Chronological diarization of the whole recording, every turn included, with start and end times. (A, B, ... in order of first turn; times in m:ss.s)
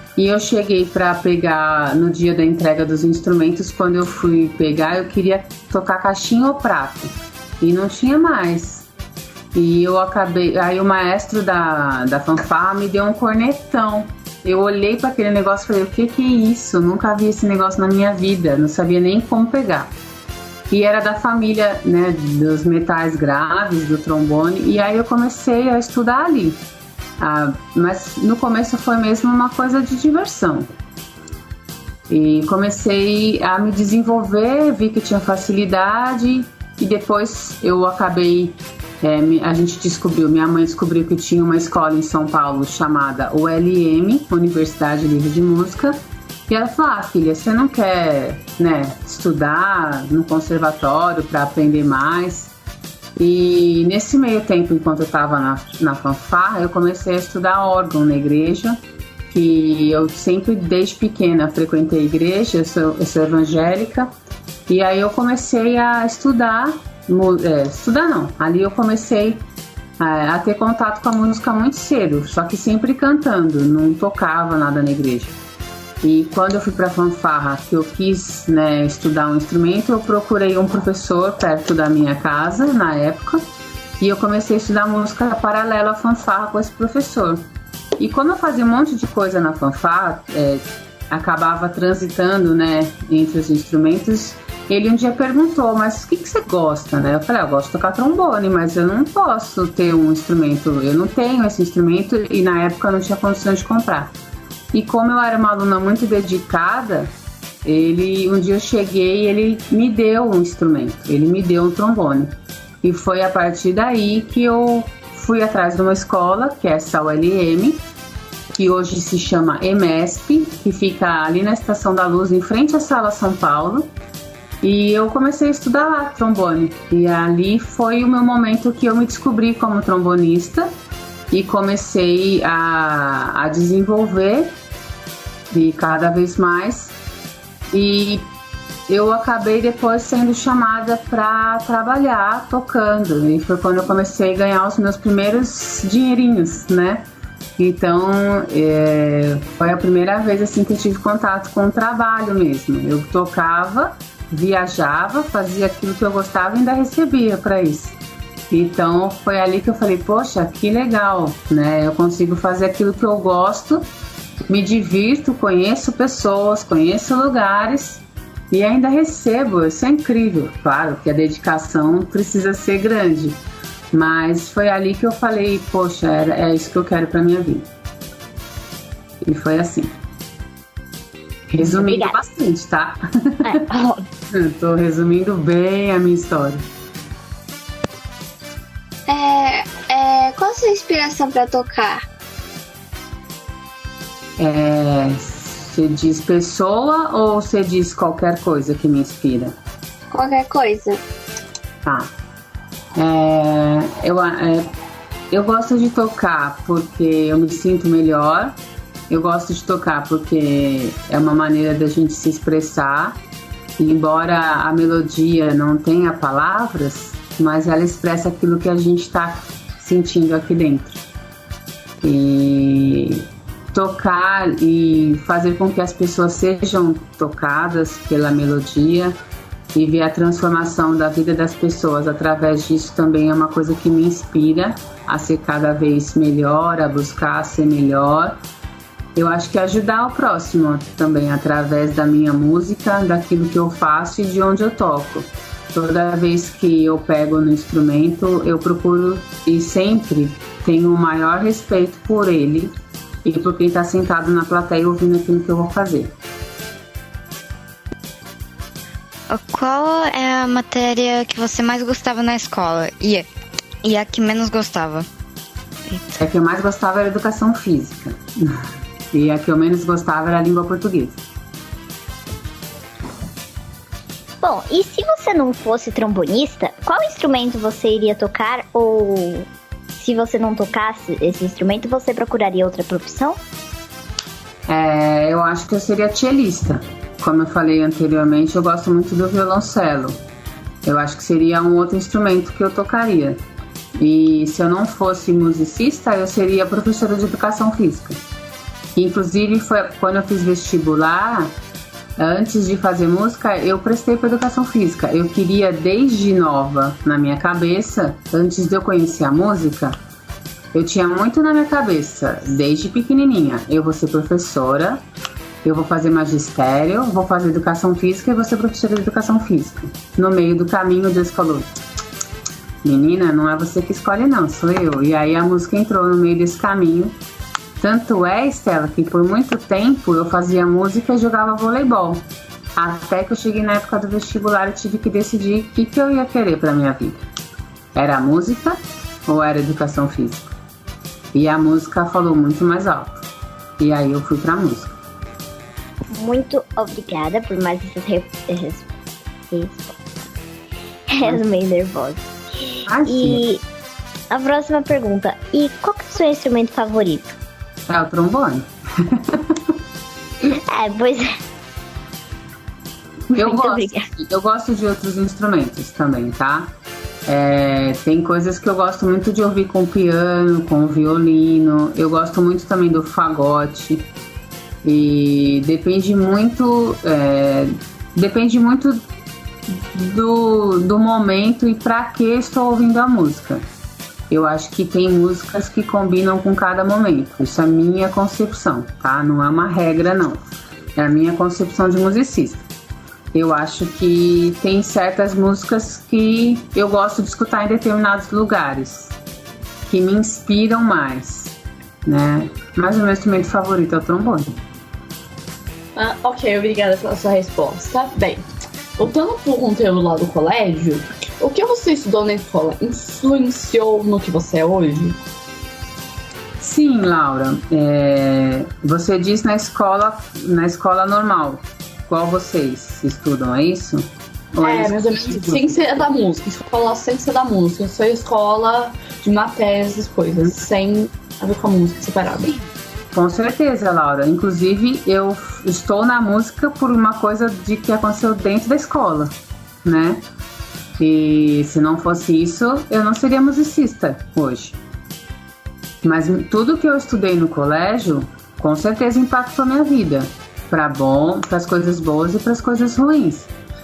0:00.2-0:08.9 A
0:09.5-0:19.9 A
0:20.7-0:26.6 A
0:27.2-0:30.7 A
0:32.1-0:52.5 A
0:53.2-0:58.8 A
0:59.3-1:04.1 A
1:04.7-1:09.4 A
1:10.0-1:15.4 A
1:16.0-1:23.4 A
1:24.0-1:27.4 A
1:28.0-1:44.1 A
1:44.7-1:47.1 A
1:47.6-1:57.8 A
1:58.5-2:03.9 A
2:04.6-2:10.7 A
2:11.3-2:14.5 A
2:15.5-2:17.0 A
2:17.7-2:18.3 A
2:18.9-2:27.0 A
2:27.6-2:38.0 A
2:38.5-2:43.9 A
2:44.5-2:53.4 A
2:53.9-2:57.7 A
2:59.2-2:59.9 A
3:01.5-3:03.6 A
3:01.7-3:02.2 B
3:03.4-3:04.1 B
3:04.3-3:06.6 A
3:09.1-3:12.0 C
3:14.4-3:19.5 A
3:20.1-3:21.0 C
3:21.8-3:22.1 A
3:23.0-3:24.7 A
3:25.3-3:28.6 A
3:29.1-3:33.2 A
3:33.8-3:41.0 A
3:42.0-3:49.2 A
3:49.7-3:58.4 A
3:59.2-4:12.7 A
4:13.2-4:16.1 A
4:19.3-4:23.3 D
4:23.8-4:25.1 D
4:26.2-4:28.6 A
4:29.1-4:31.2 A
4:34.4-4:43.4 B
4:44.7-4:50.2 A
4:50.8-4:53.4 A
4:54.0-4:58.2 A
4:59.0-5:01.5 A
5:02.2-5:10.0 A
5:10.7-5:15.0 A
5:15.6-5:21.7 A
5:22.8-5:27.1 A
5:27.8-5:37.2 A
5:38.0-5:40.5 A
5:41.3-5:43.2 A
5:43.8-5:45.0 A
5:46.1-5:48.9 B
5:49.5-5:50.0 B
5:51.1-5:53.6 B
5:52.9-5:53.4 A
5:54.3-5:57.4 B
5:57.9-5:59.6 A
6:00.5-6:01.3 B
6:03.3-6:04.1 B
6:03.3-6:06.7 A
6:07.3-6:14.0 A
6:14.8-6:19.0 A
6:19.7-6:23.6 A
6:24.3-6:30.4 A
6:31.0-6:32.7 A
6:33.3-6:39.2 A
6:39.9-6:44.5 A
6:46.0-6:48.4 E
6:49.0-6:55.2 E
6:56.6-7:06.0 A
7:04.6-7:12.6 E
7:13.1-7:19.3 A
7:19.8-7:20.2 A
7:21.0-7:24.8 A
7:26.0-7:33.5 A